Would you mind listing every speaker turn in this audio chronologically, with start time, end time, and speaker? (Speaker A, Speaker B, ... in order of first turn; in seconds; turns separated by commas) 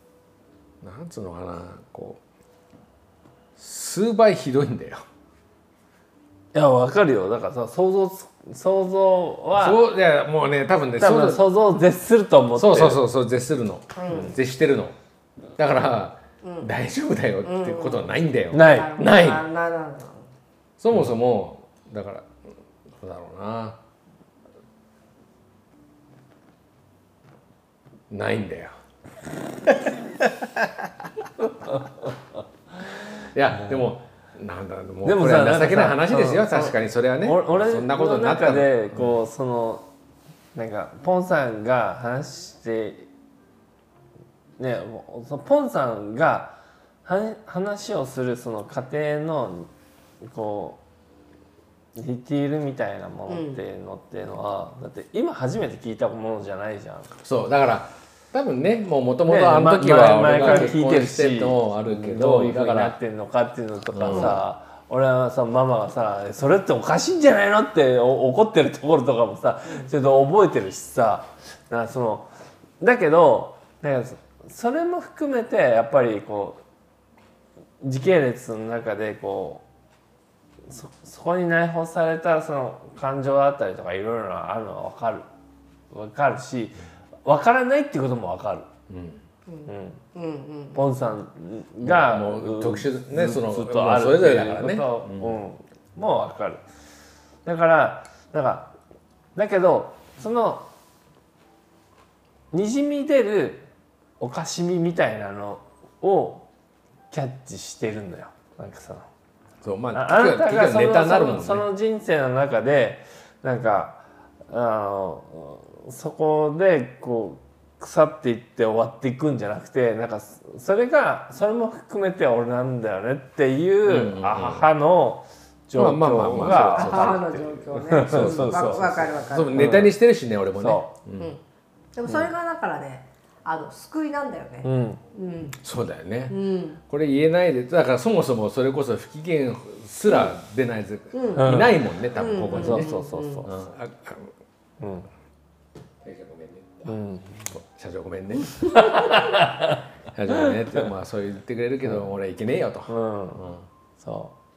Speaker A: 0.8-2.2, Speaker A: 3.6-5.0, Speaker B: 6.5-9.8, Speaker A: 9.6-11.5, Speaker B: 11.0-13.0, Speaker A: 12.6-14.9, Speaker C: 13.9-14.4, Speaker A: 15.6-19.4, Speaker C: 16.4-16.7, Speaker C: 17.4-20.2, Speaker B: 18.5-19.0, Speaker A: 20.8-22.3, Speaker A: 22.9-23.8, Speaker A: 28.1-28.8, Speaker A: 33.2-39.2, Speaker B: 35.0-39.8, Speaker B: 40.5-43.1, Speaker B: 44.6-49.7, Speaker B: 50.2-50.8, Speaker B: 52.0-57.2, Speaker C: 53.3-53.6, Speaker A: 57.2-63.0, Speaker B: 59.2-72.3, Speaker C: 60.4-60.7, Speaker A: 63.9-64.3, Speaker C: 64.1-64.4, Speaker B: 72.8-76.6, Speaker B: 77.8-79.6, Speaker B: 80.7-85.3, Speaker B: 85.9-88.7, Speaker A: 88.9-89.2, Speaker C: 89.5-90.8, Speaker B: 89.7-90.0, Speaker B: 90.7-96.6, Speaker A: 91.8-95.4, Speaker B: 97.4-98.7, Speaker B: 99.3-100.7, Speaker B: 102.5-103.7, Speaker B: 104.2-106.5, Speaker B: 107.1-109.1, Speaker A: 109.6-111.7, Speaker B: 109.9-129.9, Speaker A: 123.8-124.7, Speaker A: 125.7-127.3, Speaker C: 126.3-129.7, Speaker A: 127.8-131.3, Speaker B: 130.5-131.0, Speaker C: 131.9-135.6, Speaker B: 132.1-132.3, Speaker B: 134.6-135.0, Speaker A: 135.6-136.3, Speaker C: 136.3-136.8, Speaker A: 136.9-142.9, Speaker C: 140.1-140.3, Speaker C: 141.1-141.5, Speaker B: 141.3-141.9, Speaker C: 142.2-143.5, Speaker B: 142.5-143.5, Speaker A: 143.4-144.3, Speaker B: 144.8-145.1, Speaker A: 146.0-147.0, Speaker B: 146.8-147.5, Speaker A: 147.5-149.4, Speaker B: 148.6-149.8, Speaker A: 150.1-153.7, Speaker B: 150.3-150.9, Speaker B: 151.8-152.1, Speaker B: 152.9-153.5, Speaker B: 154.0-154.3